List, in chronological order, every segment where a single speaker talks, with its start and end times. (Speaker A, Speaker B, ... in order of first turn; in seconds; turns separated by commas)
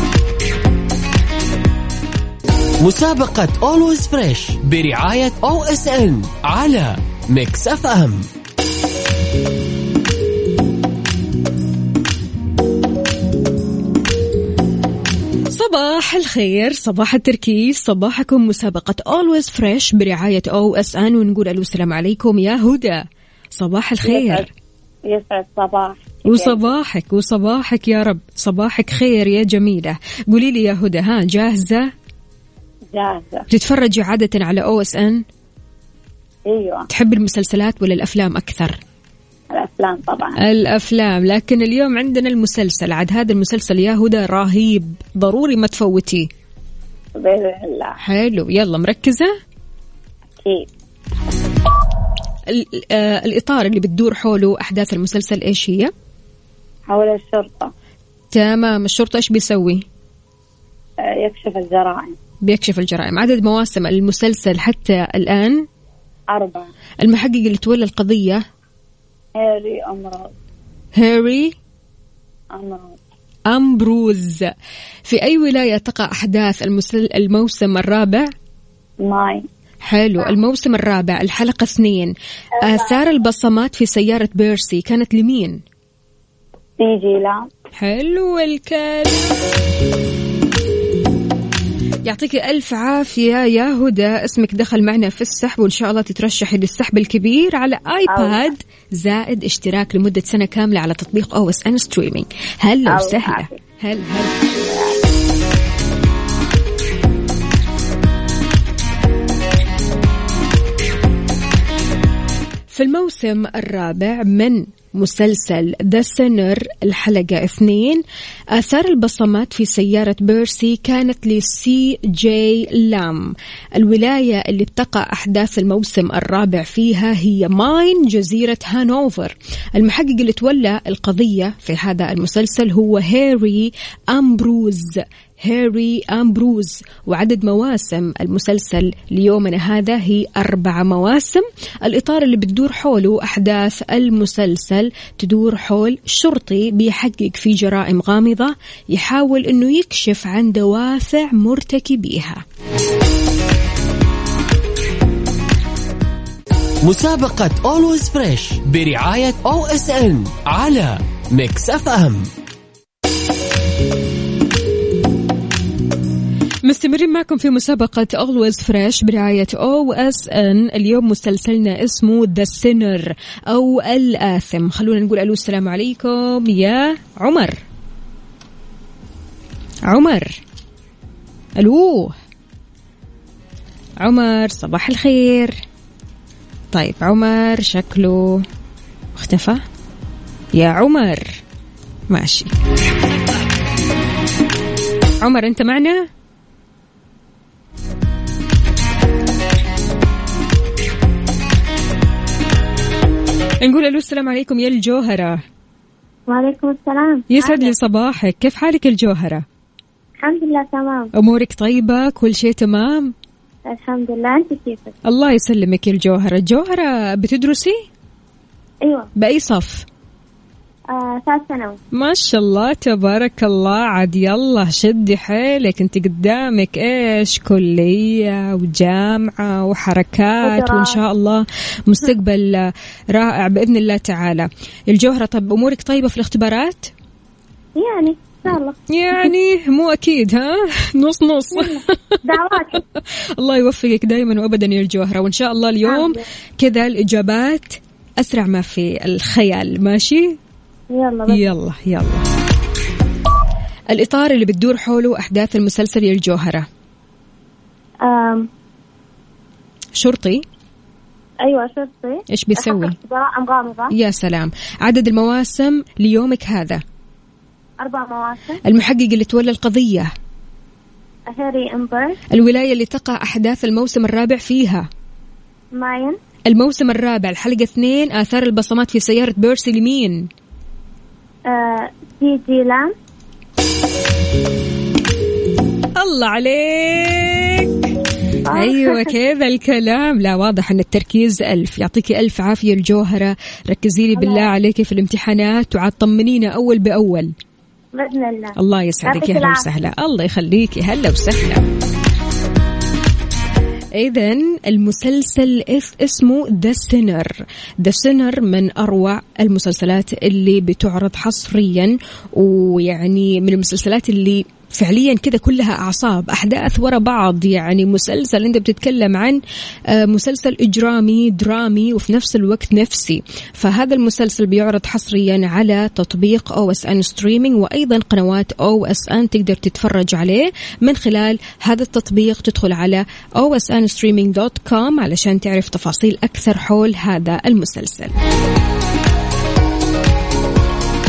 Speaker A: 2.8-8.3, Speaker B: 15.5-23.0, Speaker B: 23.6-24.5, Speaker C: 24.0-24.5, Speaker C: 25.1-26.6, Speaker B: 26.3-31.9, Speaker C: 32.9-33.5, Speaker B: 33.5-35.2, Speaker C: 36.5-36.9, Speaker B: 36.9-38.8, Speaker C: 39.5-40.4, Speaker B: 40.4-46.3, Speaker C: 47.1-48.0, Speaker B: 48.0-49.4, Speaker C: 50.4-50.7, Speaker B: 52.5-55.9, Speaker C: 56.9-57.7, Speaker B: 58.3-59.8, Speaker C: 61.0-62.1, Speaker B: 62.4-65.6, Speaker C: 66.3-66.7, Speaker B: 67.0-68.4, Speaker C: 69.3-70.3, Speaker B: 71.0-71.5, Speaker C: 72.5-73.0, Speaker B: 73.5-74.5, Speaker B: 75.1-78.3, Speaker C: 79.0-79.4, Speaker B: 79.8-85.6, Speaker C: 86.8-87.5, Speaker B: 87.7-89.4, Speaker B: 92.0-104.3, Speaker C: 98.1-98.4, Speaker C: 102.8-103.6, Speaker C: 104.4-105.0, Speaker B: 112.7-118.0, Speaker B: 118.5-152.4, Speaker A: 156.8-162.3, Speaker B: 166.7-177.6, Speaker B: 179.9-180.4, Speaker B: 181.6-182.2, Speaker B: 184.0-185.6, Speaker B: 186.7-188.4, Speaker B: 189.1-189.6, Speaker B: 190.5-191.4, Speaker B: 192.1-192.5, Speaker B: 195.2-196.1, Speaker B: 203.6-205.4, Speaker C: 206.3-207.7, Speaker B: 207.3-209.4, Speaker C: 210.2-211.1, Speaker B: 211.1-213.1, Speaker C: 213.7-214.9, Speaker B: 215.1-217.8, Speaker C: 218.8-219.1, Speaker B: 219.2-219.8, Speaker C: 220.9-221.8, Speaker B: 221.9-236.9, Speaker C: 230.4-231.0, Speaker C: 237.8-238.8, Speaker B: 238.9-242.2, Speaker C: 241.5-242.8, Speaker B: 243.4-250.4, Speaker C: 245.8-246.2, Speaker C: 250.9-251.5, Speaker B: 251.3-252.2, Speaker B: 253.9-256.7, Speaker C: 258.0-258.5, Speaker B: 260.0-260.4, Speaker C: 261.4-263.9, Speaker B: 262.3-262.9, Speaker B: 263.9-266.8, Speaker C: 267.8-268.6, Speaker B: 268.6-270.1, Speaker C: 271.3-272.2, Speaker B: 272.3-274.9, Speaker C: 275.7-276.2, Speaker B: 276.5-280.2, Speaker C: 281.5-282.9, Speaker B: 286.0-287.9, Speaker C: 288.4-289.1, Speaker B: 288.5-297.3, Speaker C: 294.1-294.5, Speaker C: 297.9-299.6, Speaker B: 298.6-301.6, Speaker B: 303.9-338.1